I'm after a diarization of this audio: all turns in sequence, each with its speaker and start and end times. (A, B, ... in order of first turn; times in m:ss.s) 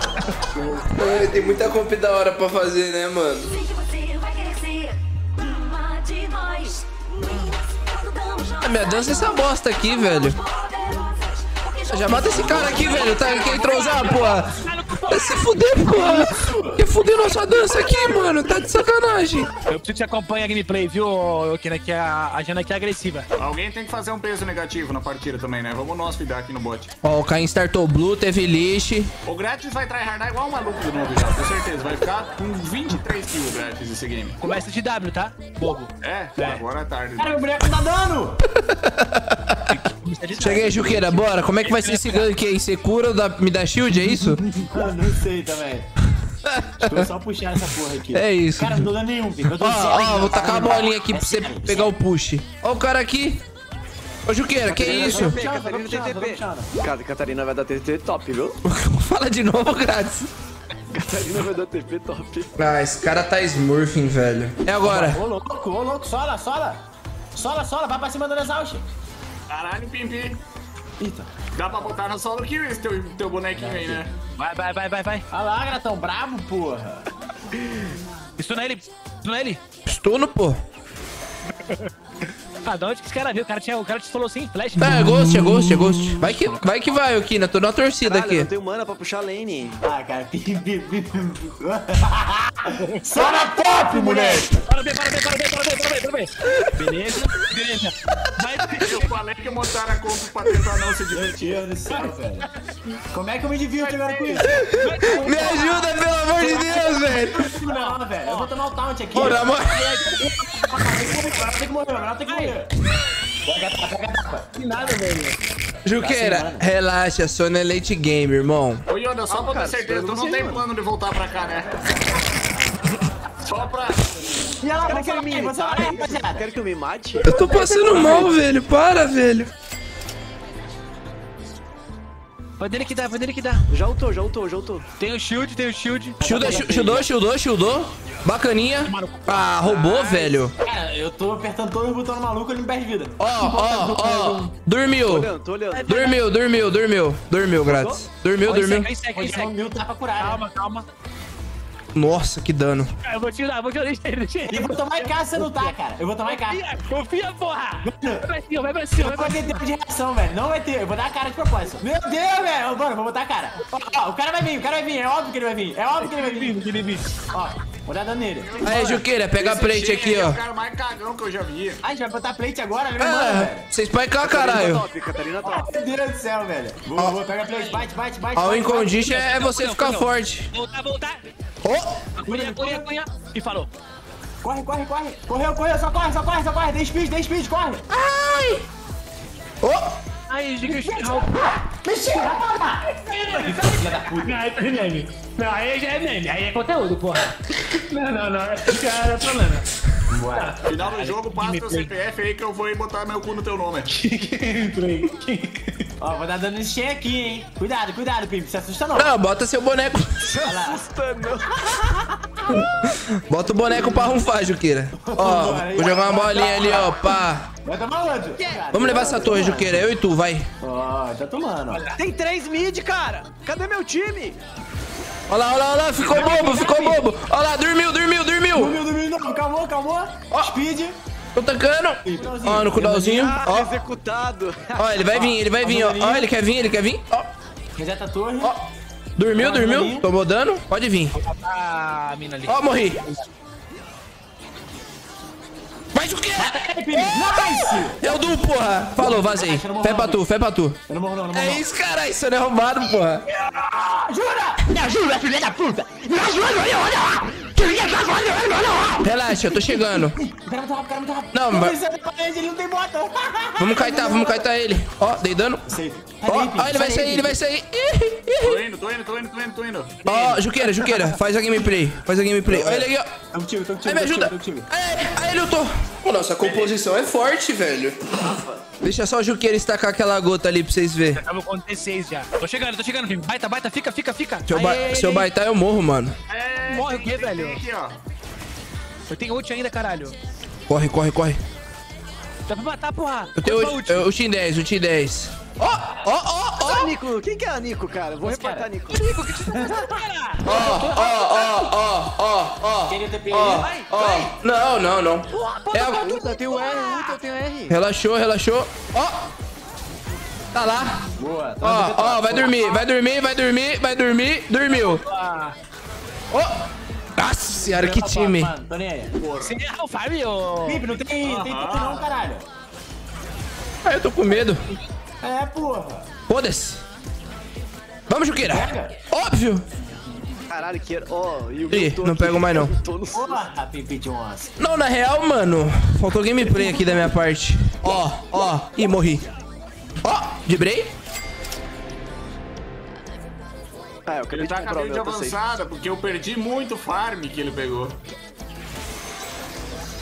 0:00.9-0:03.6 A
0:03.9-0:04.9 B
0:05.6-0:06.8 B
0:08.0-0:08.5 B
0:08.5-0:10.4 A
0:11.8-0:14.5 A
0:12.2-0:13.0 C
0:12.9-0:14.2 D
0:13.0-0:15.8 E
0:15.0-0:19.5 A
0:15.9-0:16.8 C
0:19.7-0:23.3 E
0:23.4-0:26.9 D
0:27.0-0:29.1 A
0:29.2-0:34.4 D
0:34.4-0:36.6 E
0:36.0-0:37.4 D
0:37.2-0:38.4 C
0:38.6-0:39.6 A
0:39.7-0:42.3 E
0:40.4-0:44.4 A
0:44.2-0:45.9 C
0:46.4-0:47.1 A
0:46.8-0:51.9 C
0:48.1-0:48.9 A
0:49.4-0:53.4 A
0:54.3-0:55.4 A
0:54.7-0:58.6 B
0:54.8-0:56.8 C
0:58.7-1:00.3 A
1:00.9-1:02.5 B
1:02.6-1:05.2 A
1:04.8-1:06.8 C
1:07.4-1:08.8 C
1:09.5-1:10.4 D
1:11.0-1:11.3 C
1:11.6-1:14.1 D
1:13.6-1:14.0 C
1:14.4-1:15.2 E
1:15.3-1:17.0 C
1:18.4-1:19.6 E
1:19.9-1:20.6 A
1:22.6-1:25.0 E
1:24.8-1:28.5 A
1:28.0-1:29.8 B
1:29.8-1:34.5 C
1:33.2-1:34.5 D
1:34.7-1:39.1 E
1:38.8-1:41.6 D
1:41.1-1:42.5 C
1:41.9-1:42.5 E
1:43.1-1:44.5 C
1:43.8-1:46.0 E
1:44.5-1:47.5 A
1:46.4-1:49.5 C
1:47.7-1:48.6 E
1:49.1-1:49.9 A
1:49.7-1:50.9 E
1:50.6-1:52.8 C
1:52.3-1:52.6 E
1:53.4-1:54.5 C
1:54.6-1:55.4 E
1:55.8-1:58.8 A
1:56.0-1:56.7 C
1:58.9-2:01.7 D
1:59.3-2:00.6 B
2:03.4-2:04.0 D
2:04.6-2:06.5 C
2:04.8-2:07.4 B
2:07.2-2:09.5 A
2:07.8-2:08.2 C
2:12.6-2:13.6 E
2:13.7-2:14.8 B
2:15.0-2:16.2 E
2:16.2-2:17.0 C
2:16.2-2:20.5 A
2:18.8-2:19.5 E
2:19.7-2:20.4 D
2:20.6-2:24.5 C
2:23.2-2:25.3 A
2:25.1-2:25.8 B
2:25.7-2:26.2 E
2:25.9-2:28.9 A
2:27.7-2:28.0 B
2:28.4-2:29.5 E
2:29.1-2:30.4 C
2:30.2-2:30.8 E
2:31.9-2:32.9 A
2:33.0-2:35.7 E
2:34.5-2:36.6 C
2:36.2-2:39.6 E
2:37.8-2:38.2 C
2:39.0-2:46.6 C
2:46.0-2:47.1 E
2:47.3-2:48.7 C
2:48.4-2:51.8 D
2:48.6-2:50.4 A
2:51.8-2:53.6 C
2:53.0-2:54.8 A
2:54.2-2:55.6 B
2:55.4-2:59.1 C
2:57.5-2:57.8 E
2:58.3-3:00.5 A
2:59.0-3:01.2 E
3:01.6-3:02.0 A
3:02.2-3:03.7 E
3:02.2-3:02.8 C
3:04.4-3:07.8 C
3:07.9-3:08.6 A
3:09.6-3:10.0 A
3:10.3-3:11.4 E
3:10.6-3:14.4 C
3:13.0-3:19.6 E
3:20.1-3:20.6 C
3:20.3-3:21.9 E
3:20.6-3:23.9 D
3:23.9-3:25.6 E
3:26.0-3:29.1 C
3:28.9-3:30.4 A
3:30.4-3:31.4 B
3:30.4-3:30.8 C
3:32.5-3:37.5 A
3:33.7-3:34.2 C
3:35.0-3:39.9 C
3:38.7-3:40.5 A
3:40.6-3:41.8 C
3:41.7-3:42.0 E
3:42.0-3:44.4 B
3:45.3-3:48.8 A
3:46.0-3:47.0 C
3:48.6-3:51.0 C
3:51.3-3:53.7 A
3:52.0-3:53.3 C
3:53.2-3:55.1 B
3:54.8-3:57.3 A
3:55.1-3:56.3 C
3:57.8-3:58.6 C
3:58.4-4:01.1 A
3:59.4-4:00.1 C
4:01.1-4:03.2 E
4:02.4-4:03.0 A
4:05.9-4:10.8 A
4:06.4-4:08.1 C
4:09.0-4:10.2 C
4:10.9-4:11.6 C
4:11.3-4:13.2 A
4:13.4-4:15.0 C
4:14.8-4:15.8 E
4:15.6-4:24.5 C
4:19.0-4:20.2 A
4:21.3-4:21.8 A
4:23.6-4:25.7 A
4:25.7-4:27.4 C
4:26.2-4:28.6 A
4:28.4-4:30.0 D
4:30.0-4:31.2 E
4:30.0-4:33.1 A
4:32.4-4:34.7 C
4:33.8-4:38.0 A
4:36.4-4:36.7 D
4:38.8-4:41.2 A
4:41.1-4:45.3 E
4:44.5-4:46.1 A
4:46.3-4:48.0 D
4:46.7-4:47.6 E
4:49.1-4:50.2 E
4:50.7-4:51.4 A
4:52.5-4:54.1 E
4:53.4-4:56.9 A
4:56.6-4:59.1 B
4:58.2-4:58.7 C
4:58.9-5:01.7 E
4:59.4-4:59.8 C
5:00.4-5:06.1 A
5:02.9-5:04.0 C
5:05.3-5:07.2 E
5:06.0-5:07.8 B
5:07.7-5:09.3 A
5:10.5-5:11.0 A
5:11.2-5:12.8 C
5:11.6-5:15.0 A
5:14.7-5:15.6 E
5:16.3-5:18.5 A
5:17.6-5:19.1 C
5:19.2-5:19.6 D
5:19.4-5:20.8 E
5:20.6-5:22.4 C
5:21.2-5:22.0 D
5:23.8-5:24.6 A
5:25.2-5:26.1 C
5:26.3-5:26.8 A
5:28.1-5:29.6 A
5:28.4-5:29.0 C
5:30.5-5:33.4 B
5:31.7-5:32.7 A
5:33.1-5:34.5 C
5:34.6-5:39.2 A
5:36.6-5:37.0 C
5:40.0-5:40.9 A
5:44.1-5:45.4 B
5:44.3-5:48.0 D